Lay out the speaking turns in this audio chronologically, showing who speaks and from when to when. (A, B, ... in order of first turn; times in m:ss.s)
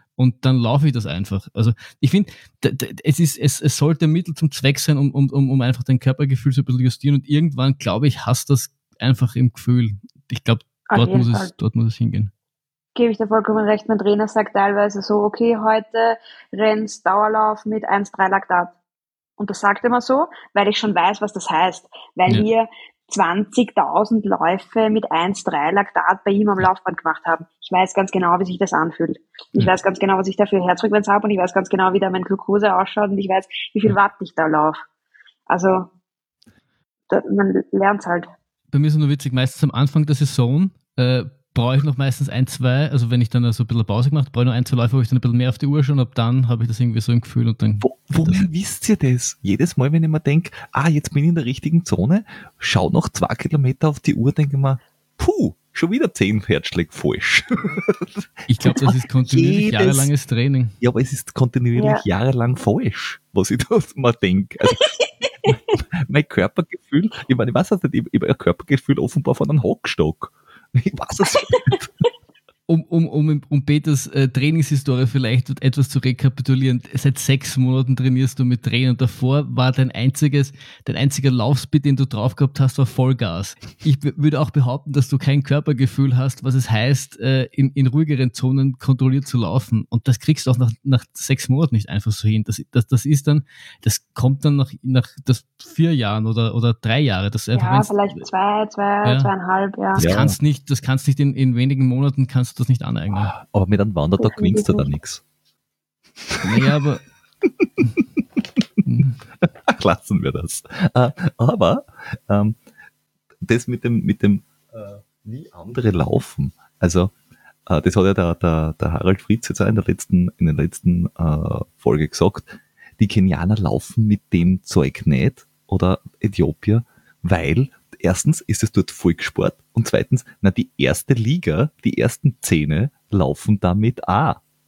0:00.2-0:12.3 A
0:10.9-0:11.5 B
0:13.0-0:18.7 B
0:19.4-0:34.8 B
0:35.5-0:35.9 B
0:37.1-0:38.3 B
0:38.7-0:48.5 A
0:47.8-1:00.1 C
0:58.5-1:00.8 A
1:00.8-1:04.9 C
1:01.8-1:02.0 B
1:04.8-1:05.1 B
1:05.4-1:11.9 C
1:12.7-1:38.0 A
1:37.5-1:40.1 B
1:39.0-1:39.3 A
1:39.9-1:43.3 A
1:40.0-1:40.4 C
1:43.1-1:45.2 C
1:44.2-1:44.9 B
1:46.2-1:46.7 C
1:46.4-1:47.0 A
1:47.5-1:47.9 C
1:48.9-1:49.2 A
1:49.4-1:52.6 C
1:53.4-1:57.1 C
1:57.7-2:14.4 C